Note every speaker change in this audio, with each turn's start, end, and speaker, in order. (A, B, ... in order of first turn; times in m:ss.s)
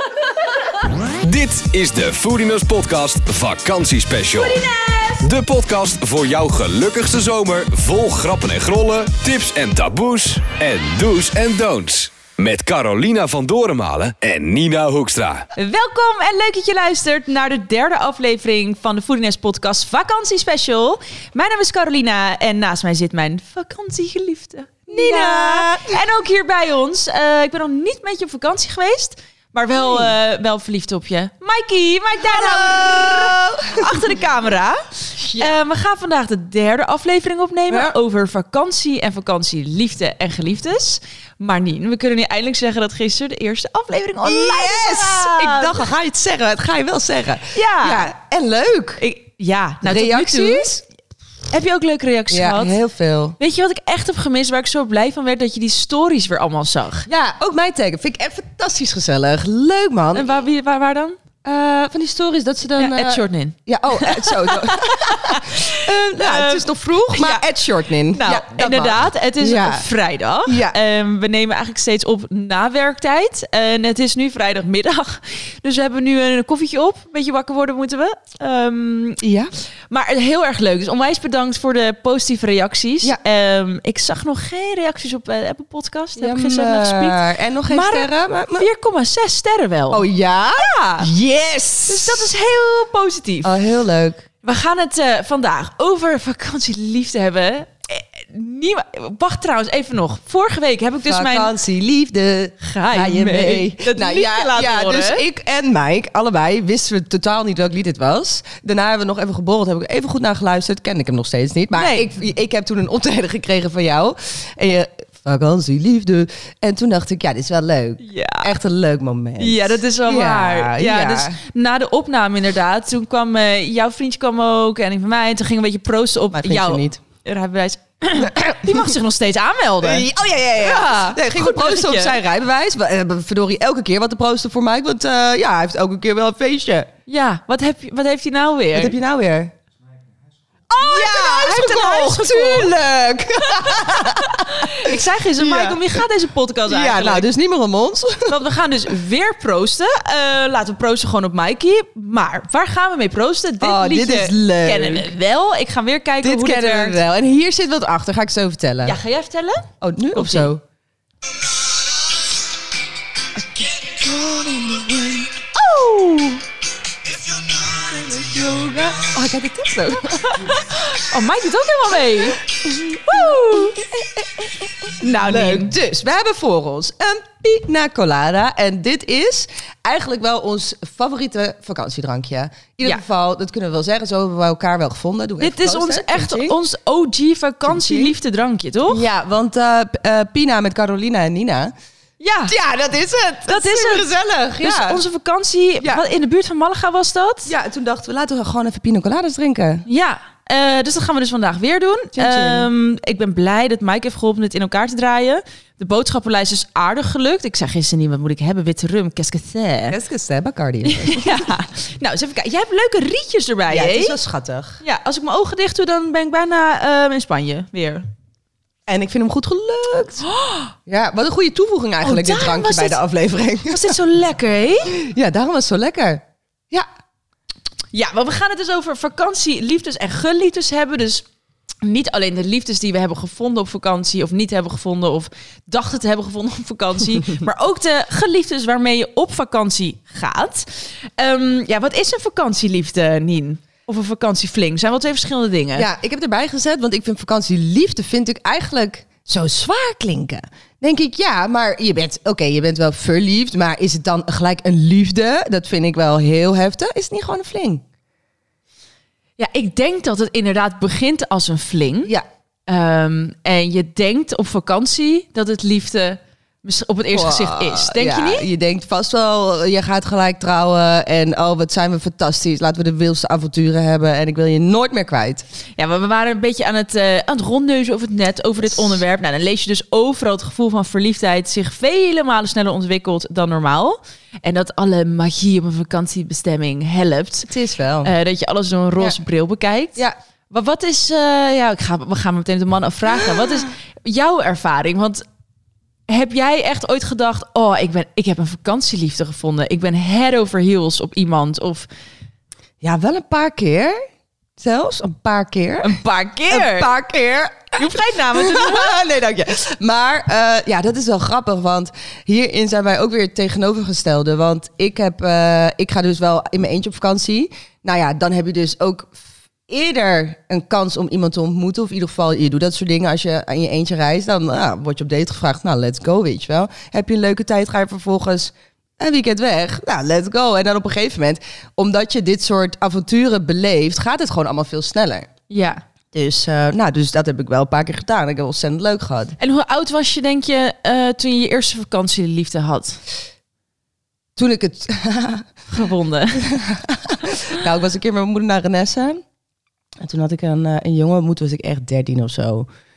0:01.2-0:04.7 A
0:04.4-0:05.1 B
0:05.2-0:15.4 A
0:15.5-0:45.8 B
0:24.9-0:26.0 C
0:29.8-0:30.1 C
0:32.2-0:34.2 C
0:35.2-0:35.5 C
0:44.2-0:49.0 C
0:47.5-0:48.1 B
0:49.0-0:50.7 B
0:49.8-0:50.8 C
0:51.5-0:52.8 B
0:52.3-0:53.4 C
0:53.4-0:57.1 B
0:57.1-1:00.3 C
1:00.1-1:01.2 B
1:01.4-1:09.8 C
1:02.8-1:07.4 B
1:08.1-1:19.2 B
1:10.4-1:10.8 C
1:19.2-1:19.5 C
1:19.9-1:31.1 B
1:26.2-1:28.7 C
1:29.9-1:32.3 C
1:31.9-1:33.5 B
1:33.4-1:34.2 C
1:34.4-1:41.5 B
1:41.0-2:01.4 C
1:42.6-1:45.2 B
1:51.7-1:52.1 B
1:58.0-1:58.5 B
1:59.4-2:12.2 B
2:06.3-2:07.0 C
2:08.2-2:08.9 C
2:09.8-2:16.9 C
2:17.1-2:19.0 B
2:18.7-2:19.5 C
2:20.7-2:26.0 C
2:20.8-2:22.7 B
2:23.4-2:27.3 B
2:26.7-2:28.4 C
2:28.3-2:37.0 B
2:33.6-2:35.1 C
2:36.2-2:39.0 C
2:38.8-2:40.5 B
2:39.8-2:40.6 C
2:43.3-2:46.4 C
2:47.3-2:50.5 C
2:50.3-2:52.4 B
2:52.6-3:06.6 C
2:53.0-2:53.8 B
2:55.0-2:55.7 B
3:05.4-3:09.0 B
3:07.7-3:08.1 C
3:08.9-3:11.7 C
3:12.2-3:12.5 B
3:12.5-3:15.0 C
3:13.4-3:17.5 B
3:17.4-3:19.8 C
3:19.8-3:30.0 B
3:22.1-3:22.7 C
3:29.9-3:31.5 C
3:30.8-3:34.2 B
3:33.7-3:34.8 C
3:34.8-3:38.0 B
3:38.9-3:40.2 C
3:40.3-3:40.7 B
3:40.9-3:44.0 C
3:42.0-3:43.0 B
3:43.7-3:44.9 B
3:44.9-3:46.8 C
3:47.9-3:51.2 B
3:51.8-4:05.9 B
4:05.7-4:17.8 C
4:19.4-4:22.1 B
4:22.7-4:28.5 B
4:27.1-4:35.4 C
4:35.8-4:47.5 B
4:47.5-4:48.1 C
4:48.0-4:55.2 B
4:56.1-5:01.9 B
5:02.8-5:04.0 C
5:04.6-5:06.0 C
5:05.8-5:06.9 B
5:06.5-5:35.3 C
5:07.7-5:09.0 B
5:35.5-5:35.8 B
5:36.1-5:39.4 C
5:39.4-5:43.0 B
5:44.4-5:45.5 C
5:45.7-5:46.5 B
5:46.3-5:49.2 C
5:50.0-5:52.7 C